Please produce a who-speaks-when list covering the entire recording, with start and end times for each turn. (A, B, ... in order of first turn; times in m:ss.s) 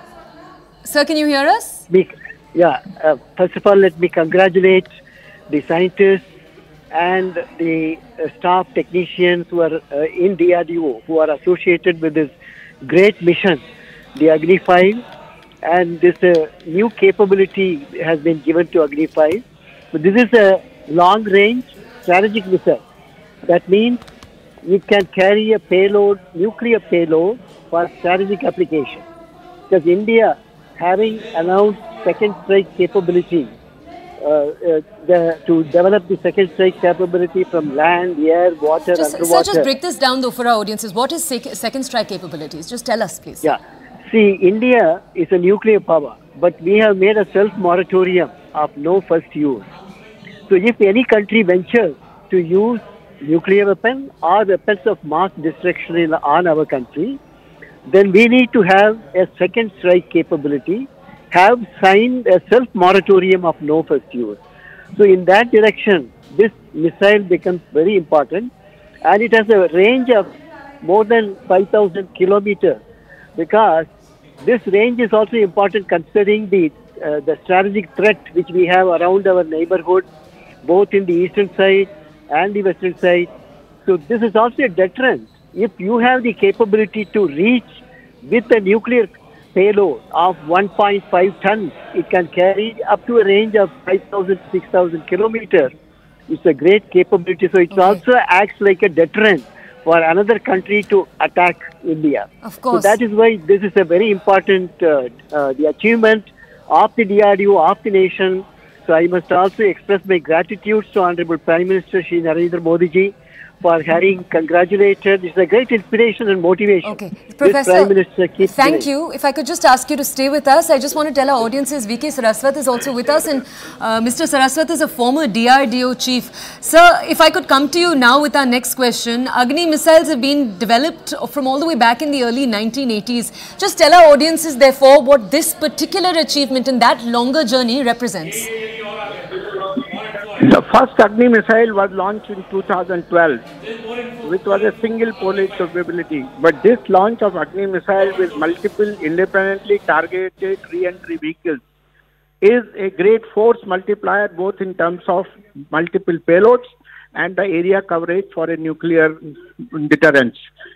0:00.8-0:01.8 A
0:01.9-0:04.9 B
0:05.5-0:06.2 B
0:06.9-0:13.6 B
0:14.2-0:15.0 B
0:15.6-0:22.8 B
0:23.5-0:24.0 B
0:24.6-0:29.0 B
0:29.7-0:33.5 B
0:34.2-0:39.7 B
0:38.9-0:43.6 A
0:43.4-0:49.7 B
0:50.5-0:57.2 B
0:57.9-1:04.4 B
1:05.0-1:08.5 B
1:05.7-1:06.7 C
1:09.0-1:10.3 B
1:10.8-1:12.8 B
1:13.4-1:13.9 B
1:14.4-1:20.1 B
1:20.6-1:23.3 B
1:23.8-1:27.7 B
1:28.2-1:35.7 B
1:30.7-1:32.4 C
1:36.3-1:56.9 B
1:37.6-1:38.3 C
1:37.7-1:38.0 A
1:40.5-1:41.2 C
1:42.4-1:43.0 A
1:44.2-1:45.2 C
1:56.8-2:18.5 A
1:57.4-1:58.9 B
2:20.4-2:23.4 C
2:24.2-2:31.6 C
2:32.4-2:39.2 C
2:39.7-2:40.4 C